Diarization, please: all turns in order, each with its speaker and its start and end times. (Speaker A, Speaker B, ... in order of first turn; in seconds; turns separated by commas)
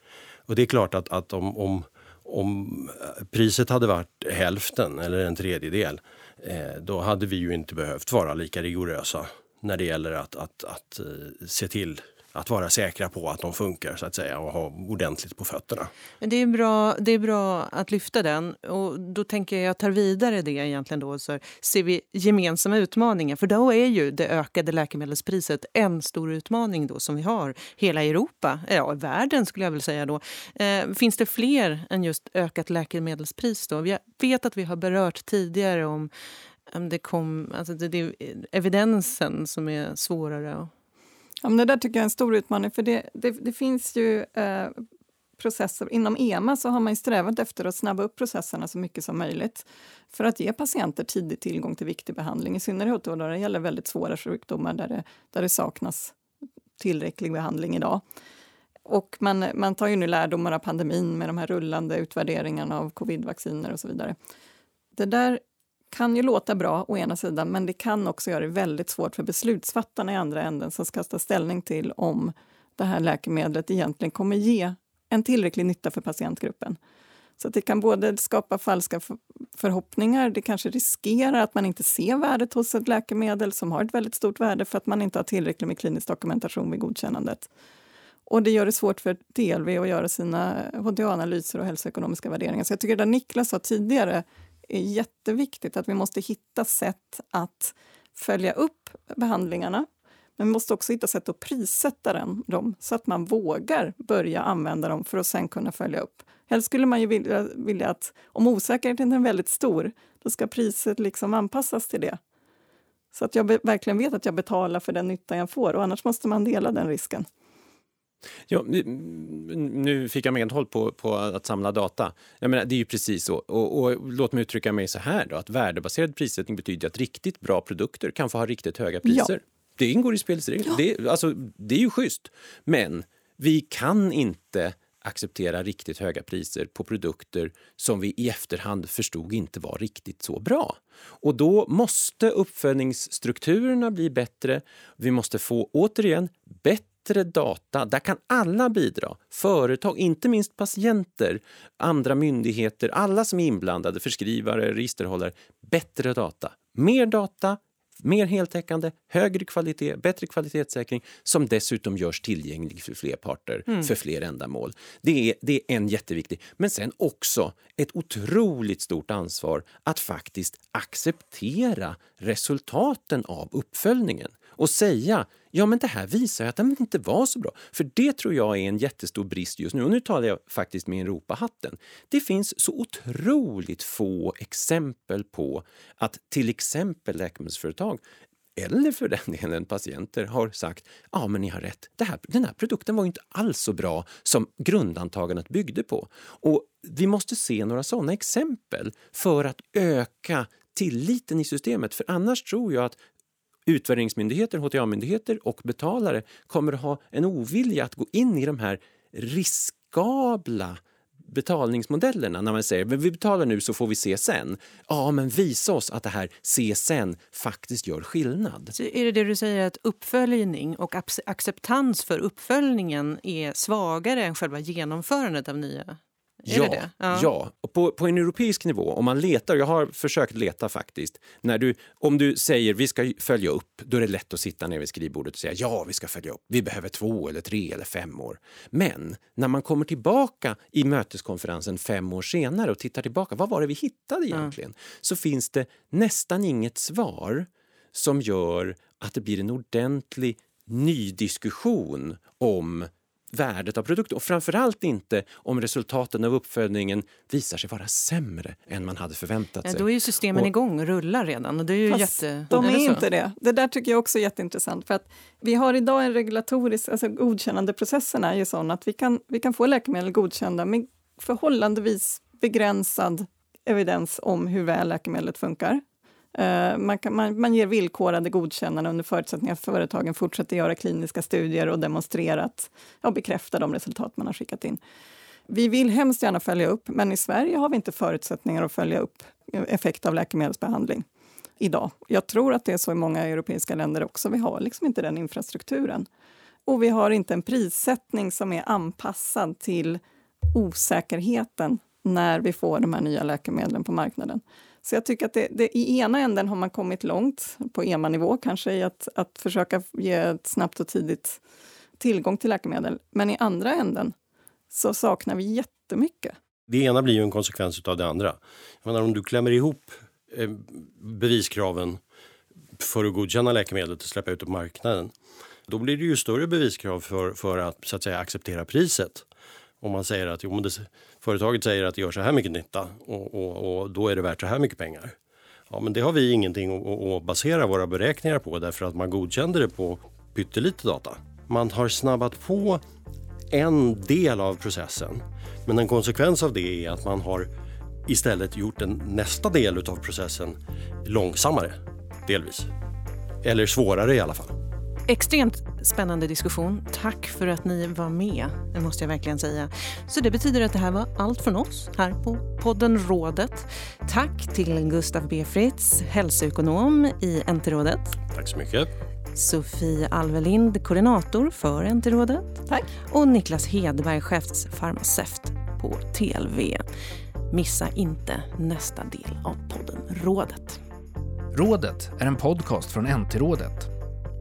Speaker A: 0.5-15.9, Speaker B: 16.2-36.1, Speaker B: 36.7-40.7, Speaker C: 41.4-44.8, Speaker C: 45.4-56.1, Speaker C: 56.8-58.0, Speaker C: 58.9-64.2, Speaker C: 65.0-76.8, Speaker C: 77.4-87.5, Speaker C: 88.3-112.2, Speaker C: 113.1-117.3, Speaker D: 118.5-188.0, Speaker C: 129.0-129.3, Speaker D: 188.6-203.0, Speaker D: 203.7-218.7, Speaker B: 218.7-227.3, Speaker D: 226.5-260.5, Speaker B: 259.6-263.0, Speaker C: 261.9-275.8, Speaker C: 276.4-284.8, Speaker C: 285.5-291.0, Speaker C: 291.6-296.1, Speaker C: 296.7-300.0, Speaker C: 300.5-311.4, Speaker C: 312.0-314.1, Speaker C: 314.7-316.4, Speaker A: 316.7-322.0, Speaker A: 322.8-325.1, Speaker A: 325.7-329.2, Speaker A: 329.8-335.1, Speaker A: 335.7-342.8, Speaker A: 343.5-347.5, Speaker A: 348.1-352.7, Speaker A: 353.4-354.5, Speaker B: 355.1-368.2, Speaker A: 368.3-368.9, Speaker B: 369.3-376.9, Speaker B: 377.5-380.8, Speaker E: 381.5-383.9